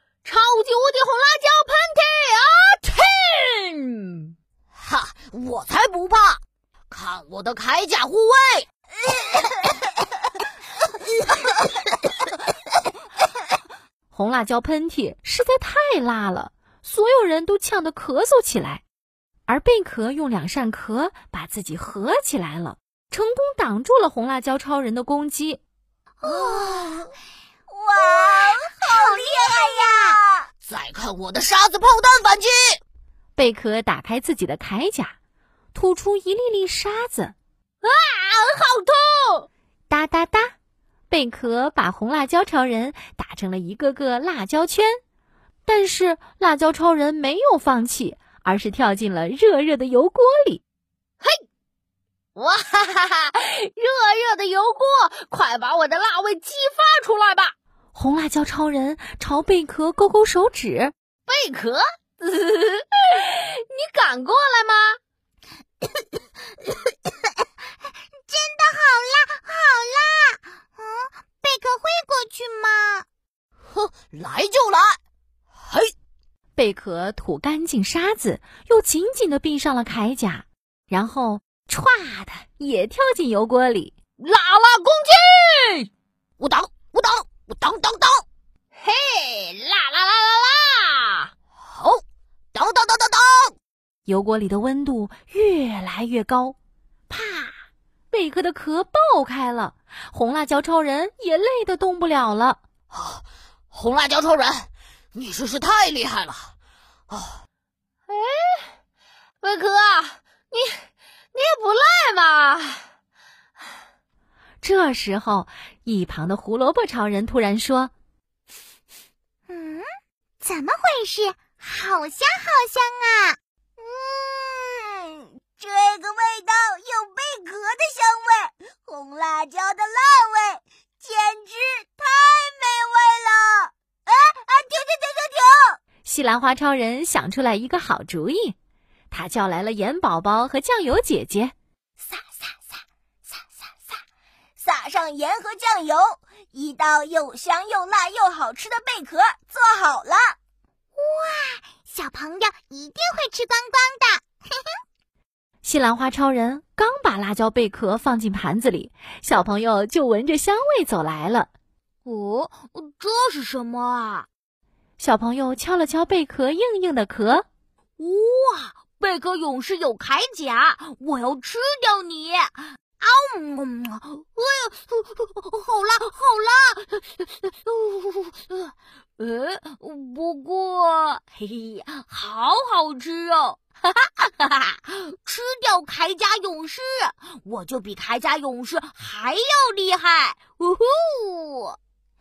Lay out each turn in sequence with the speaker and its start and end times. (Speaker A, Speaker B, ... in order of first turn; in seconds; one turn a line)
Speaker A: 0.2-4.3
Speaker B: 4.8-6.4
Speaker B: 6.9-8.7
Speaker C: 14.1-18.8
Speaker C: 19.5-25.6
Speaker D: 26.2-27.0
Speaker E: 26.2-27.0
Speaker E: 27.7-30.5
Speaker D: 28.0-30.2
Speaker B: 30.7-32.8
Speaker C: 33.4-35.1
Speaker C: 35.7-37.4
Speaker A: 37.8-39.5
Speaker C: 39.9-40.5
Speaker C: 41.1-45.0
Speaker C: 45.7-50.6
Speaker A: 52.4-57.5
Speaker C: 57.9-60.9
Speaker A: 61.3-65.0
Speaker D: 68.3-73.1
Speaker B: 73.7-75.0
Speaker B: 75.6-75.9
Speaker C: 76.6-83.9
Speaker A: 84.2-85.9
Speaker B: 86.4-88.2
Speaker A: 88.8-91.3
Speaker B: 91.6-92.0
Speaker B: 92.5-93.5
Speaker C: 94.1-96.6
Speaker C: 97.1-97.5
Speaker C: 98.1-102.6
Speaker B: 102.9-106.5
Speaker B: 107.1-107.4
Speaker A: 108.1-108.7
Speaker A: 109.4-110.8
Speaker A: 111.3-112.8
Speaker C: 114.6-117.9
Speaker D: 119.5-119.9
Speaker D: 120.4-123.4
Speaker E: 123.8-135.8
Speaker C: 136.1-138.6
Speaker C: 139.1-141.5
Speaker D: 142.0-144.0
Speaker E: 144.6-150.3
Speaker D: 151.0-154.6
Speaker C: 155.6-161.5
Speaker D: 162.1-164.3
Speaker C: 165.0-167.5
Speaker D: 168.0-191.8